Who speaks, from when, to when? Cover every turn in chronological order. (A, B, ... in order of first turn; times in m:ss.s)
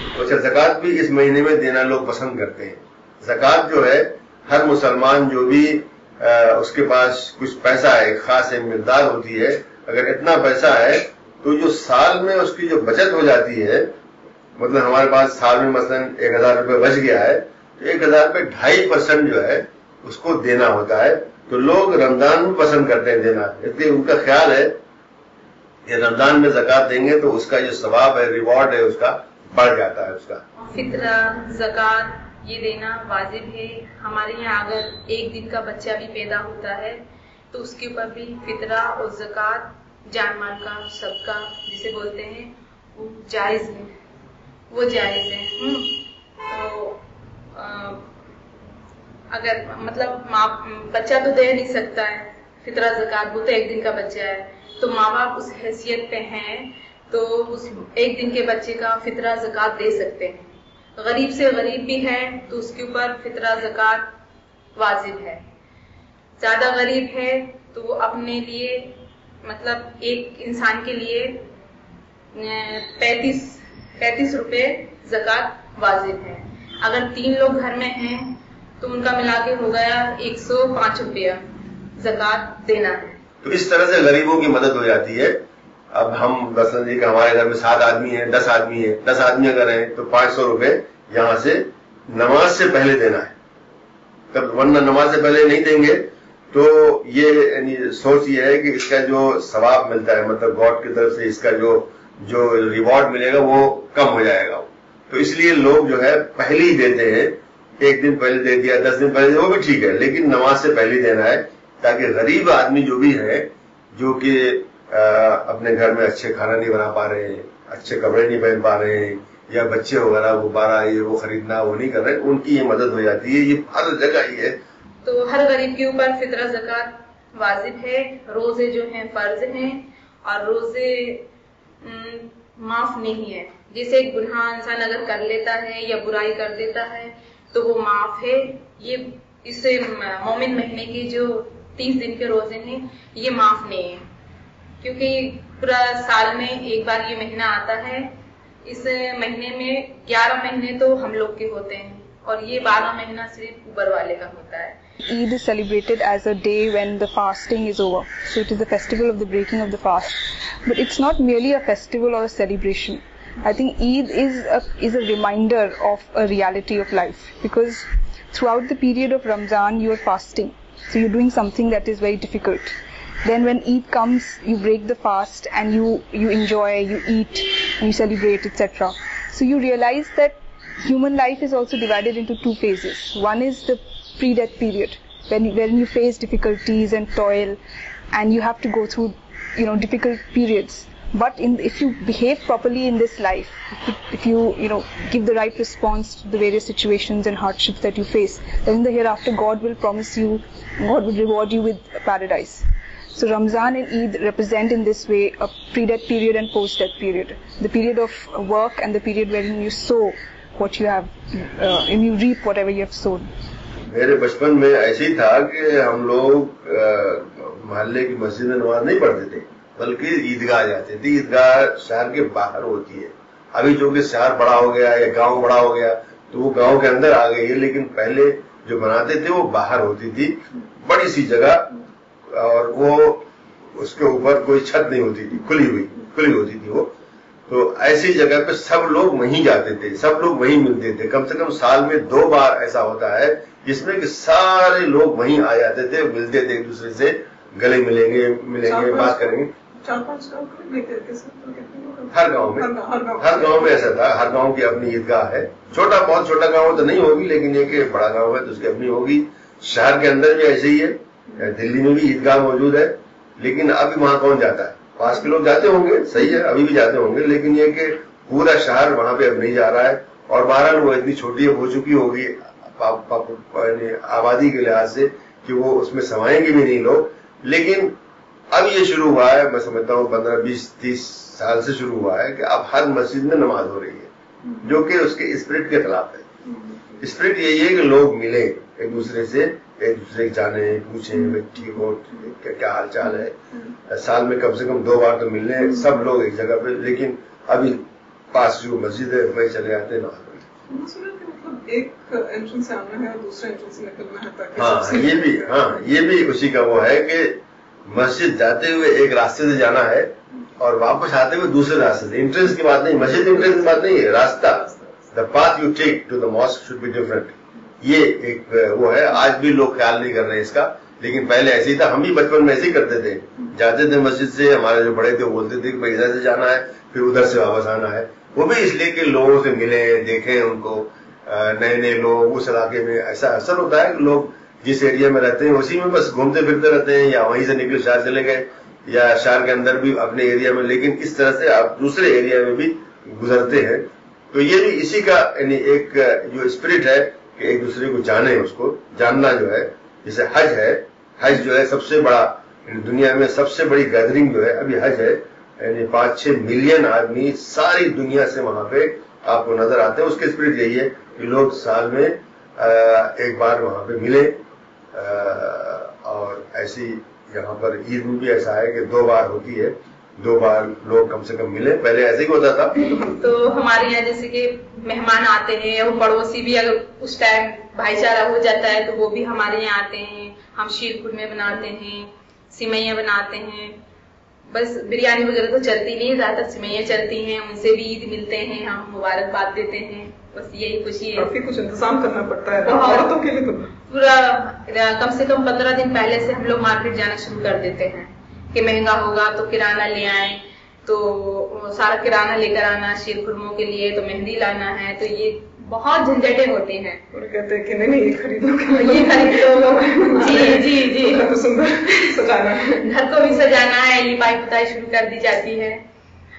0:00.1-0:13.9 A
0:14.6-0:24.8 A
0:25.9-0:30.4 A
0:30.6-0:43.9 B
0:44.7-0:48.1 B
0:49.3-1:04.1 B
1:04.8-1:05.4 B
1:06.4-1:11.5 B
1:12.3-1:21.4 B
1:22.0-1:23.2 B
1:23.4-1:33.3 A
1:34.3-2:04.6 A
2:05.0-2:11.3 B
2:11.8-2:24.0 B
2:24.8-2:28.1 B
2:28.6-2:34.8 B
2:35.0-3:07.6 C
3:08.1-3:33.2 C
3:33.9-3:56.9 A
3:57.5-4:09.5 A
4:08.6-4:13.8 D
4:12.1-4:38.0 A
4:38.5-4:44.1 A
4:44.6-4:46.3 A
4:47.0-4:53.4 A
4:53.9-5:00.4 A
5:00.7-5:05.3 D
5:04.6-6:04.4 A
6:04.9-6:12.7 A
6:13.0-6:23.8 B
6:24.5-6:31.3 B
6:31.2-6:33.7 D
6:32.6-6:33.1 B
6:33.9-6:47.0 B
6:47.1-6:52.9 D
6:48.7-6:51.3 B
6:52.8-6:55.8 B